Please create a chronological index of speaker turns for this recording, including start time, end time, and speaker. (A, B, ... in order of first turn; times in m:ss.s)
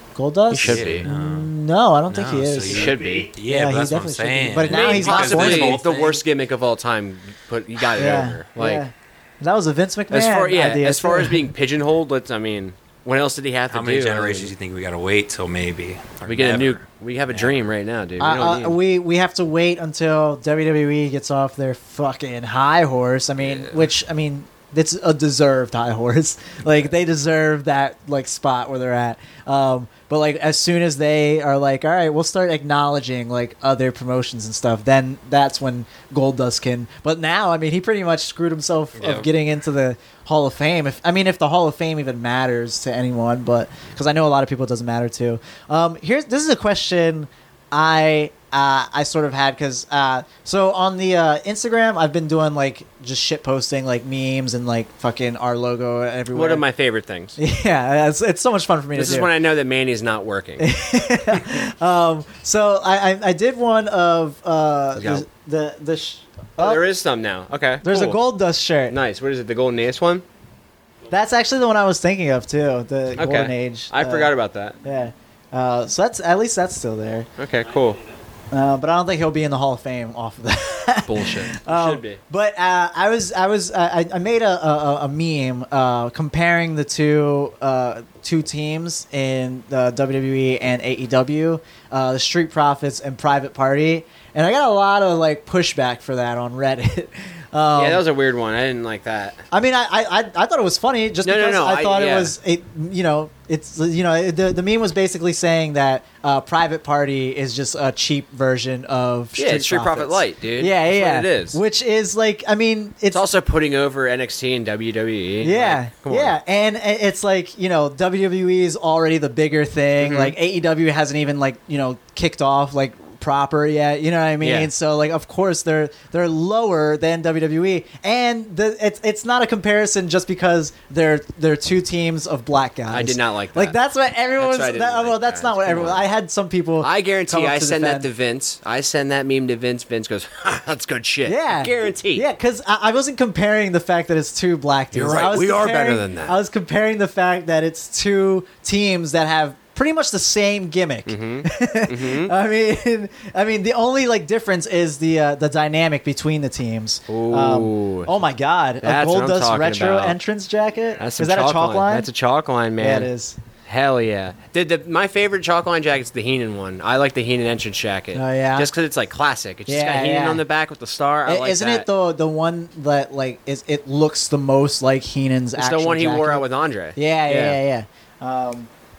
0:00.2-0:05.9 A
0:00.5-0:01.0 B
0:00.6-0:01.5 C
0:02.1-0:06.2 C
0:02.7-0:03.3 B
0:04.7-0:08.8 B
0:08.0-0:11.5 A
0:10.1-0:14.5 B
0:13.7-0:17.6 C
0:16.2-0:18.8 B
0:18.2-0:56.6 A
0:56.3-0:57.4 B
0:57.4-0:59.3 A
0:58.9-1:00.7 B
1:00.6-1:06.8 A
1:05.0-1:05.2 B
1:06.6-1:08.2 B
1:07.8-1:09.0 A
1:08.9-1:10.2 B
1:11.1-1:14.3 A
1:13.2-1:14.8 B
1:14.8-1:17.3 A
1:17.4-1:18.0 B
1:18.5-1:38.0 A
1:21.0-1:22.2 B
1:37.8-1:39.4 B
1:39.5-1:53.2 A
1:41.2-1:42.3 B
1:49.4-1:51.6 B
1:53.1-1:56.4 B
1:55.4-2:18.1 A
2:00.0-2:00.4 B
2:04.4-2:04.7 B
2:12.9-2:13.8 B
2:14.4-2:16.1 B
2:16.8-2:22.2 B
2:21.2-2:42.1 A
2:24.9-2:26.4 B
2:31.1-2:32.3 B
2:37.1-2:38.2 B
2:38.8-2:40.2 B
2:41.0-2:43.1 B
2:42.8-2:43.4 A
2:43.6-2:51.9 B
2:48.1-2:48.7 A
2:49.7-2:50.4 A
2:51.2-2:56.4 A
2:55.6-2:57.6 B
2:57.0-2:58.7 A